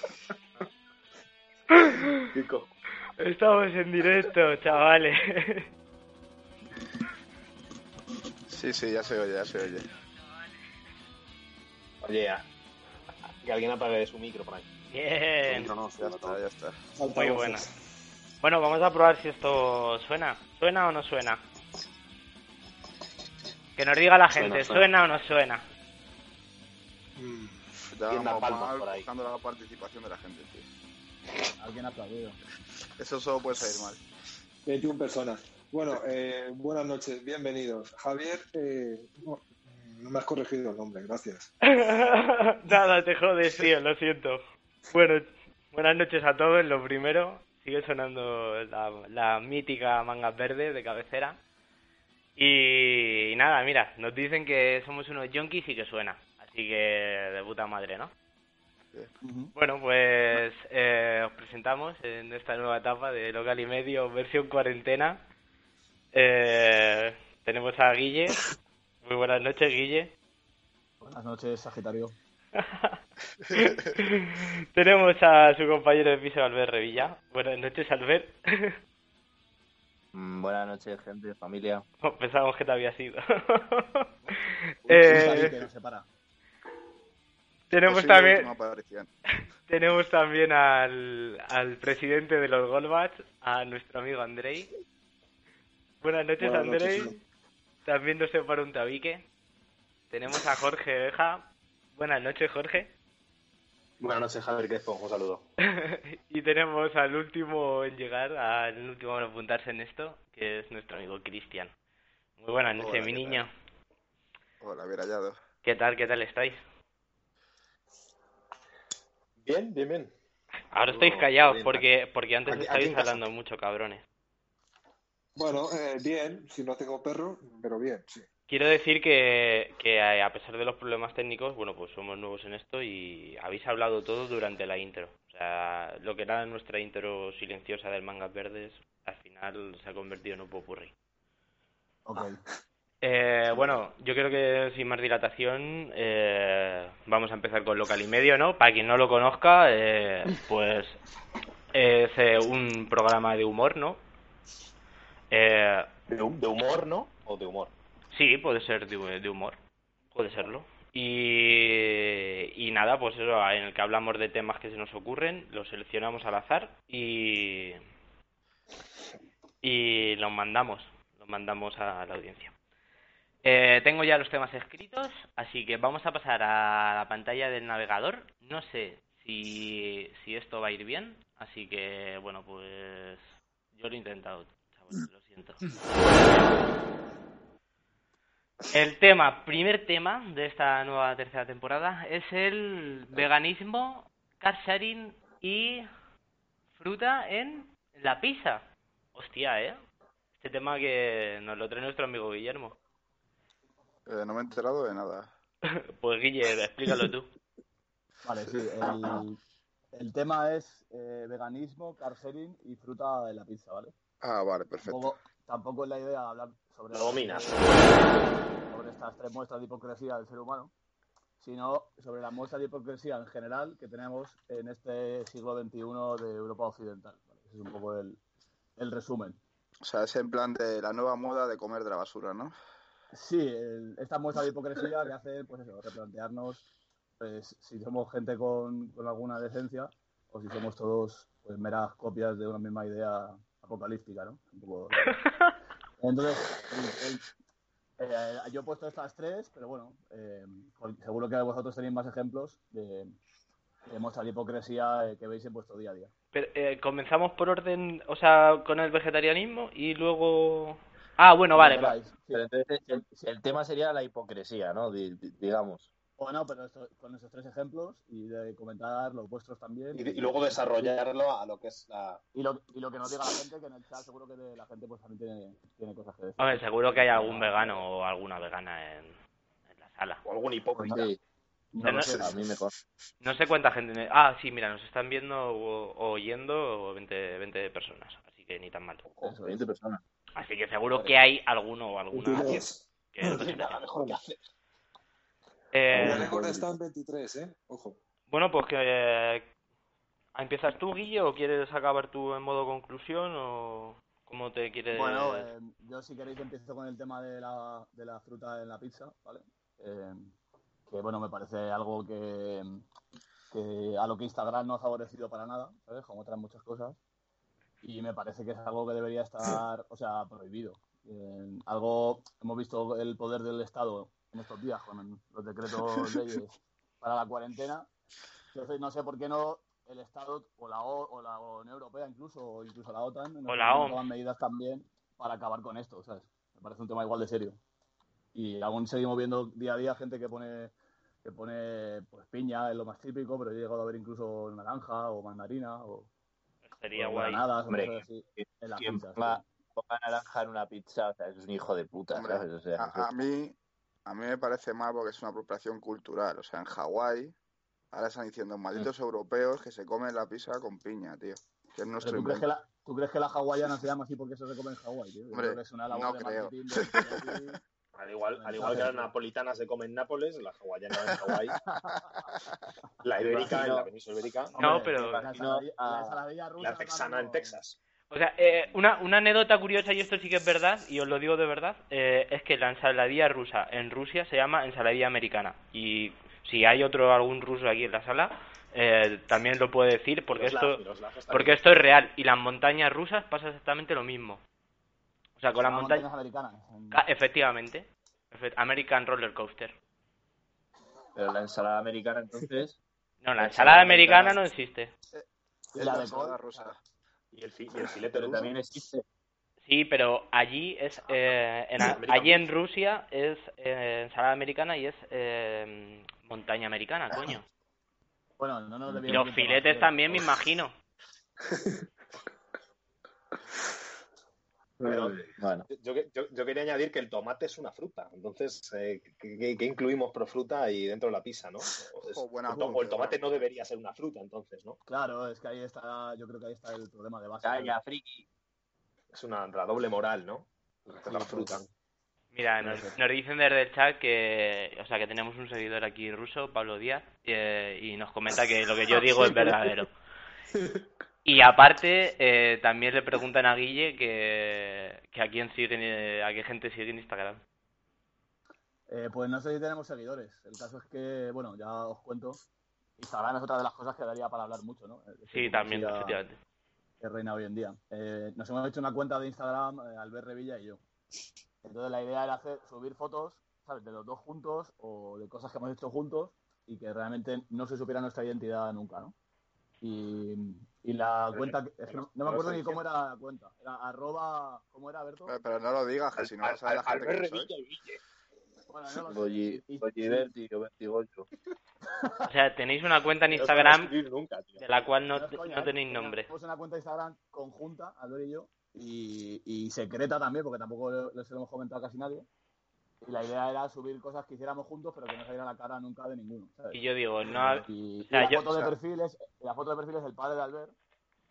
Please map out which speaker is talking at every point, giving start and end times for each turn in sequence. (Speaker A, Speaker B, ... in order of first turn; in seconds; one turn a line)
Speaker A: 1.7-2.2
Speaker B: 2.3-2.7
Speaker A: 3.2-5.7
Speaker C: 8.5-9.9
Speaker B: 12.0-12.4
Speaker B: 13.4-14.7
Speaker A: 14.9-15.7
Speaker D: 15.5-16.4
Speaker C: 16.0-16.8
Speaker D: 16.9-17.7
Speaker A: 17.1-17.6
Speaker A: 18.4-21.4
Speaker A: 23.8-25.6
Speaker B: 24.3-24.9
Speaker D: 27.2-27.6
Speaker C: 27.9-30.6
Speaker B: 28.1-29.1
Speaker E: 31.6-32.4
Speaker C: 33.0-34.0
Speaker D: 34.6-41.5
Speaker A: 41.7-51.4
Speaker A: 52.4-58.1
Speaker E: 59.2-59.5
Speaker A: 59.5-65.2
Speaker A: 66.1-68.5
Speaker A: 69.0-70.1
Speaker E: 71.0-72.2
Speaker A: 72.5-73.0
Speaker C: 73.5-73.9
Speaker A: 73.5-78.7
Speaker F: 80.1-81.8
Speaker A: 82.0-85.6
Speaker E: 84.9-86.1
Speaker A: 87.7-88.5
Speaker C: 87.8-89.1
Speaker A: 89.7-94.7
Speaker A: 96.0-97.1
Speaker D: 96.4-97.2
Speaker A: 97.8-99.2
Speaker A: 100.1-102.9
Speaker B: 104.0-105.4
Speaker A: 105.7-111.7
Speaker A: 112.4-113.5
Speaker C: 112.8-113.5
Speaker C: 114.6-115.4
Speaker A: 115.6-116.6
Speaker B: 119.4-120.1
Speaker A: 120.7-124.0
Speaker B: 120.8-121.8
Speaker B: 122.5-123.2
Speaker D: 125.3-128.2
Speaker A: 128.5-140.9
Speaker E: 142.1-142.4
Speaker A: 143.0-151.0
Speaker A: 151.7-154.0
Speaker A: 155.3-155.9
Speaker B: 156.1-157.7
Speaker A: 158.1-159.6
Speaker A: 160.1-167.8
Speaker A: 169.6-172.5
Speaker A: 173.4-183.2
Speaker A: 183.7-186.6
Speaker A: 188.7-195.9
Speaker A: 196.8-198.6
Speaker A: 199.1-199.8
Speaker A: 200.4-202.8
Speaker C: 204.1-205.3
Speaker A: 205.7-207.3
Speaker E: 208.2-209.4
Speaker E: 209.9-213.9
Speaker C: 214.2-215.1
Speaker E: 214.8-220.7
Speaker B: 216.9-218.0
Speaker E: 221.4-228.2
Speaker E: 228.8-229.4
Speaker C: 229.8-232.5
Speaker E: 233.1-236.6
Speaker E: 237.2-245.1
Speaker A: 245.0-245.5
Speaker E: 246.0-247.2
Speaker E: 248.0-253.2
Speaker E: 253.8-256.1
Speaker A: 256.3-261.9
Speaker E: 261.5-263.3
Speaker F: 262.3-265.9
Speaker E: 266.2-270.9
Speaker B: 269.9-272.2
Speaker E: 272.3-277.8
Speaker A: 276.4-279.2
Speaker A: 279.7-280.2
Speaker B: 280.2-281.1
Speaker E: 280.8-281.1
Speaker F: 280.9-281.2
Speaker E: 281.7-282.4
Speaker F: 281.9-282.7
Speaker A: 283.2-289.0
Speaker E: 289.2-289.6
Speaker F: 289.4-290.0
Speaker A: 290.4-293.8
Speaker D: 292.1-292.9
Speaker B: 292.4-292.7
Speaker B: 293.2-294.4
Speaker A: 295.7-296.3
Speaker D: 295.9-298.0
Speaker F: 295.9-296.6
Speaker E: 296.0-296.6
Speaker A: 298.3-299.4
Speaker A: 300.3-305.5
Speaker E: 304.9-310.3
Speaker E: 310.9-312.8
Speaker E: 313.5-317.0
Speaker E: 317.8-327.9
Speaker E: 328.5-337.6
Speaker A: 333.5-334.0
Speaker E: 338.3-346.1
Speaker A: 346.6-347.4
Speaker E: 346.9-349.4
Speaker F: 347.7-353.1
Speaker C: 352.1-357.3
Speaker C: 357.9-362.4
Speaker E: 362.0-367.6
Speaker C: 365.3-367.6
Speaker B: 367.9-371.6
Speaker E: 368.3-369.1
Speaker E: 371.6-372.3
Speaker B: 373.0-374.5
Speaker E: 373.2-373.6
Speaker F: 373.3-373.9
Speaker E: 374.5-377.6
Speaker A: 374.6-375.2
Speaker F: 374.6-376.2
Speaker B: 376.6-377.8
Speaker A: 378.1-394.4
Speaker B: 390.3-391.7
Speaker A: 395.4-396.1
Speaker E: 395.6-397.0
Speaker A: 396.9-399.7
Speaker F: 401.1-402.8
Speaker A: 403.2-404.9
Speaker F: 403.4-404.4
Speaker E: 405.7-406.7
Speaker C: 405.8-406.8
Speaker B: 407.3-408.5
Speaker F: 408.1-409.0
Speaker A: 409.6-417.4
Speaker B: 411.8-412.5
Speaker E: 418.4-420.3
Speaker A: 419.1-420.7
Speaker D: 421.4-421.9
Speaker B: 424.8-434.8
Speaker F: 424.9-425.7
Speaker C: 432.0-433.2
Speaker E: 434.9-437.8
Speaker F: 437.4-438.3
Speaker B: 439.1-441.7
Speaker A: 442.3-449.9
Speaker E: 442.6-442.9
Speaker A: 451.2-457.4
Speaker E: 458.9-462.4
Speaker E: 463.0-466.2
Speaker A: 465.3-466.4
Speaker E: 467.0-470.8
Speaker E: 471.6-479.1
Speaker E: 479.8-485.3
Speaker B: 481.3-482.8
Speaker C: 485.3-487.5
Speaker B: 486.2-488.0
Speaker E: 488.7-490.3
Speaker F: 489.1-491.3
Speaker E: 491.9-492.3
Speaker A: 492.3-493.9
Speaker B: 493.3-494.6
Speaker A: 494.6-496.3
Speaker E: 495.1-502.2
Speaker E: 503.0-510.7
Speaker A: 506.7-508.7